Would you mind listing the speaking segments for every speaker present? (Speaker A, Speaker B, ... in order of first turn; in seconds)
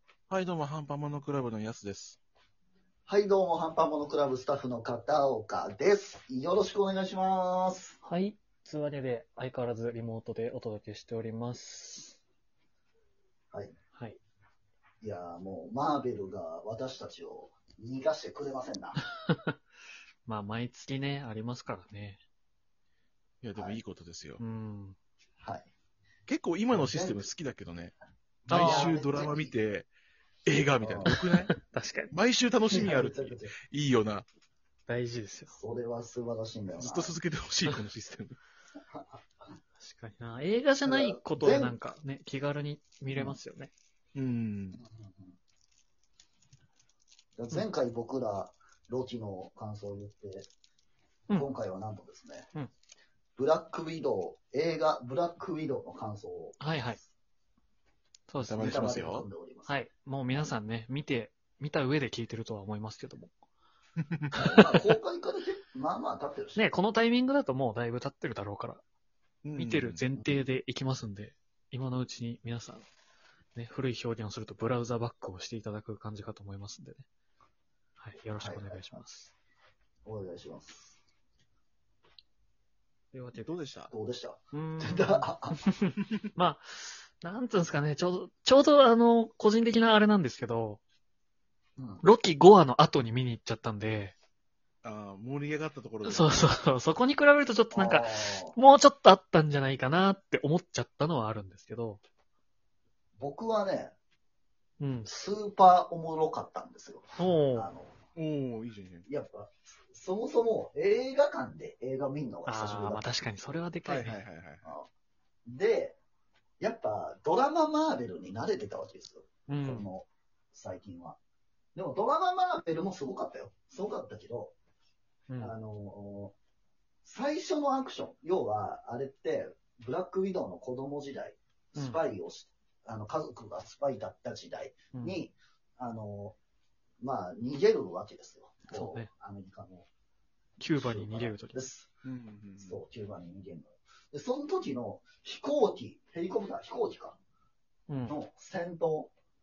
Speaker A: 0.3-2.2, 23.4-24.4, 26.3-27.9, 28.5-29.9, 30.5-31.5, 32.1-34.3, 36.8-38.4, 44.1-44.8, 58.4-59.3, 69.4-70.0, 83.3-83.9, 94.8-96.5, 108.2-109.1, 113.8-114.7, 142.0-142.8
Speaker B: 3.1-8.0, 15.0-19.0, 23.6-23.8, 25.4-25.7, 26.7-27.3, 28.5-29.5, 30.8-31.1, 32.7-33.5, 35.5-37.1, 38.9-39.2, 40.9-41.8, 43.1-43.4, 44.8-45.4, 47.4-50.5, 51.3-52.5, 53.4-56.6, 58.6-59.7, 64.4-66.6, 78.4-79.0, 80.0-81.0, 83.9-85.6, 91.8-92.0, 97.7-98.6, 103.2-104.0, 105.1-108.0, 109.1-113.1, 115.5-116.0, 116.6-121.2, 121.8-124.5, 125.4-126.3, 127.0-136.4, 137.0-139.9, 140.7-141.9, 142.6-147.2, 148.1-149.1
Speaker C: 8.0-12.2, 19.3-19.6, 20.3-22.2, 24.4-25.0, 28.5-29.0, 31.1-32.1, 34.9-35.5, 39.8-43.7, 51.3-51.5, 56.6-57.0, 58.3-58.7, 59.7-63.3, 66.6-68.8, 69.6-72.8, 73.5-77.1, 78.0-79.3, 83.1-83.5, 84.5-90.8, 92.0-94.2, 96.0-102.0, 104.8-105.1, 107.2-107.7, 112.5-114.2, 119.5-119.9, 125.3-125.6, 131.8-132.0, 134.9-135.2, 138.7-139.1, 140.6-141.7, 147.9-148.2